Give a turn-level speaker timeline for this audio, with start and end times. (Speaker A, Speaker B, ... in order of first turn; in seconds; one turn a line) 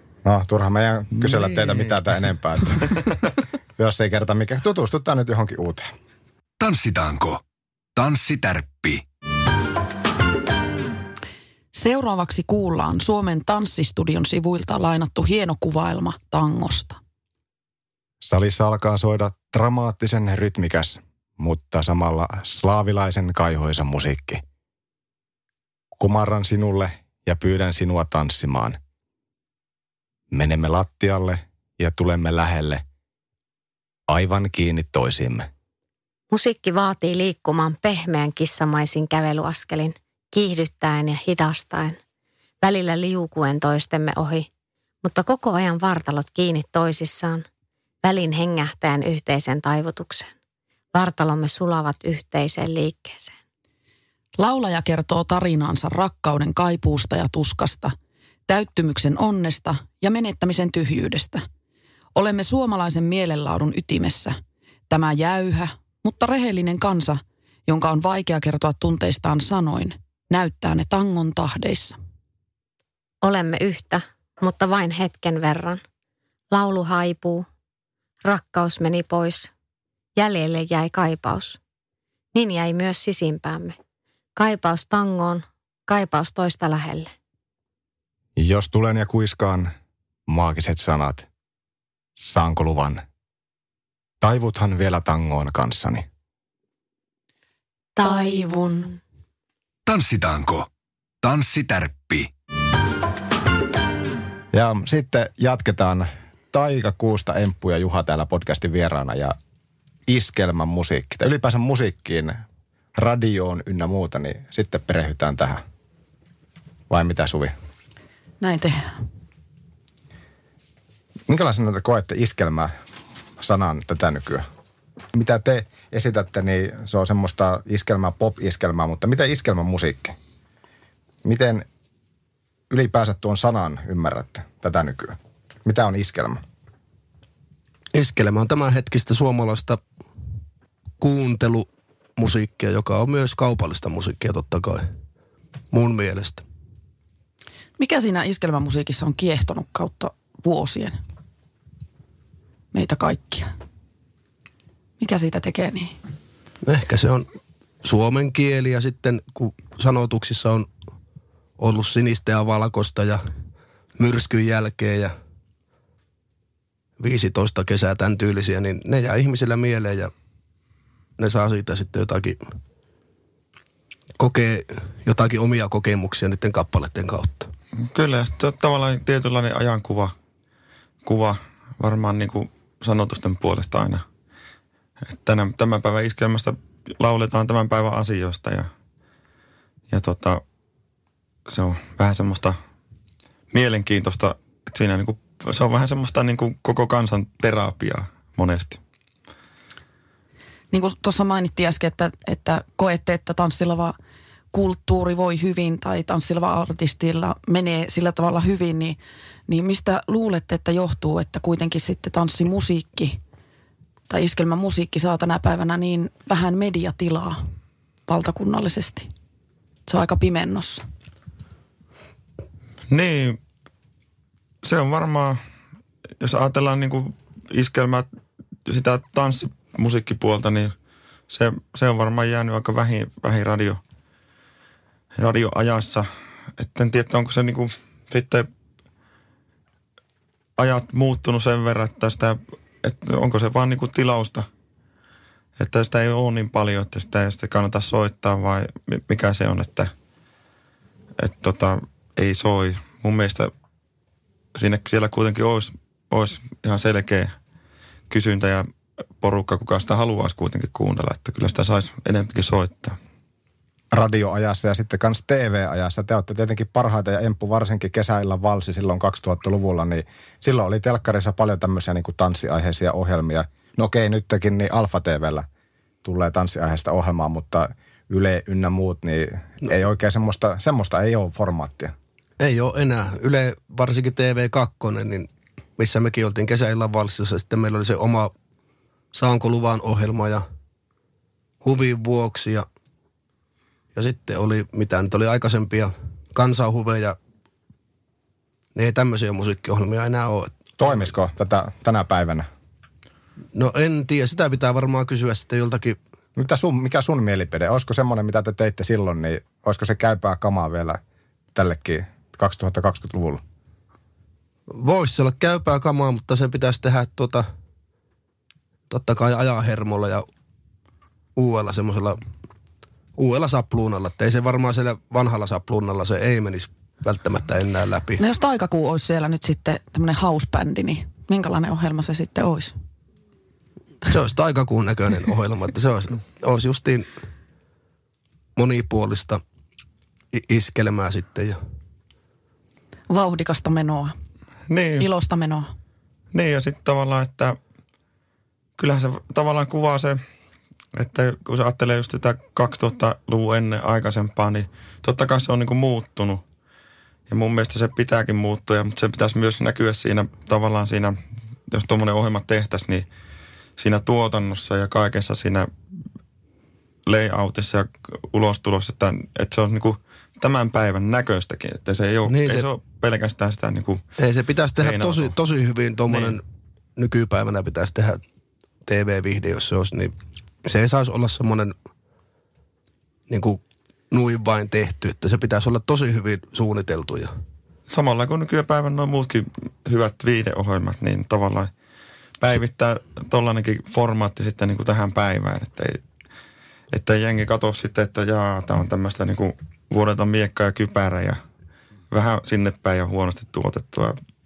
Speaker A: 0.2-3.0
Speaker B: 1.2-1.9
Speaker A: 3.8-5.9
Speaker C: 6.6-7.4
Speaker C: 7.9-9.0
Speaker D: 11.7-17.0
Speaker A: 18.2-24.4
Speaker A: 26.0-28.8
Speaker A: 30.3-32.8
Speaker A: 34.1-35.5
Speaker E: 36.3-42.0
Speaker E: 42.6-44.5
Speaker E: 45.0-47.5
Speaker E: 48.0-50.3
Speaker E: 50.9-53.4
Speaker D: 54.4-57.9
Speaker D: 58.5-61.4
Speaker D: 62.1-64.4
Speaker D: 64.9-72.0
Speaker E: 73.2-75.8
Speaker E: 76.5-77.5
Speaker E: 78.2-79.5
Speaker E: 80.2-81.6
Speaker E: 82.3-83.8
Speaker E: 84.3-87.1
Speaker A: 88.3-89.7
Speaker A: 90.3-91.3
Speaker A: 92.2-93.0
Speaker A: 94.2-96.0
Speaker E: 98.0-99.0
Speaker C: 99.8-100.7
Speaker C: 101.2-102.3
Speaker A: 104.5-109.3
Speaker A: 110.1-112.4
Speaker A: 112.9-115.6
Speaker A: 116.9-117.5
Speaker D: 118.4-119.0
Speaker A: 121.3-122.7
Speaker A: 123.4-124.4
Speaker A: 125.1-130.1
Speaker A: 131.2-131.7
Speaker A: 132.7-136.4
Speaker F: 137.9-139.8
Speaker F: 141.0-144.9
Speaker F: 145.7-146.4
Speaker D: 147.8-151.0
Speaker D: 152.7-153.5
Speaker D: 155.0-155.9
Speaker F: 156.6-157.3
Speaker F: 157.8-160.7
Speaker F: 161.6-163.2
Speaker F: 164.0-165.1
Speaker F: 167.0-170.1
Speaker F: 171.2-172.5
Speaker F: 174.2-177.5
Speaker B: 177.9-180.1
Speaker B: 181.0-184.0
Speaker B: 185.0-188.7
Speaker B: 189.9-190.4
Speaker B: 191.5-192.6
Speaker B: 193.5-198.8
Speaker D: 200.7-203.9
Speaker D: 204.5-213.2
Speaker D: 214.1-217.4
Speaker D: 218.1-219.1
Speaker D: 219.9-220.8
Speaker B: 222.9-223.4
Speaker B: 224.6-225.4
Speaker B: 226.2-228.1
Speaker B: 228.7-230.7
Speaker B: 231.3-233.8
Speaker B: 235.1-238.5
Speaker B: 240.6-244.5
Speaker B: 245.6-249.9
Speaker B: 251.2-253.5
Speaker B: 254.5-257.3
Speaker B: 258.1-258.7
Speaker B: 259.2-263.0
Speaker A: 263.9-275.4
Speaker A: 276.0-281.9
Speaker F: 282.4-288.3
Speaker F: 289.1-290.4
Speaker F: 291.6-292.6
Speaker F: 293.9-297.2
Speaker F: 298.7-301.1
Speaker A: 300.8-302.5
Speaker F: 303.5-306.0
Speaker A: 306.4-311.0
Speaker A: 311.5-313.4
Speaker F: 314.7-317.4
Speaker F: 318.9-320.2
Speaker F: 321.4-322.2
Speaker F: 323.1-328.2
Speaker D: 328.2-332.7
Speaker F: 334.1-337.1
Speaker F: 338.6-339.4
Speaker F: 340.3-341.6
Speaker D: 343.1-344.1
Speaker B: 344.7-345.1
Speaker D: 345.0-345.7
Speaker B: 346.3-347.6
Speaker B: 348.8-350.2
Speaker B: 350.9-356.4
Speaker B: 357.3-361.2
Speaker B: 361.7-363.1
Speaker B: 363.8-365.7
Speaker B: 367.1-374.0
Speaker F: 372.3-372.7
Speaker F: 374.2-376.4
Speaker B: 374.8-375.3
Speaker B: 376.1-376.4
Speaker F: 376.9-378.2
Speaker F: 378.9-380.1
Speaker F: 380.6-381.7
Speaker F: 383.3-387.3
Speaker B: 387.9-391.7
Speaker B: 392.4-396.0
Speaker B: 396.9-401.4
Speaker B: 402.1-404.2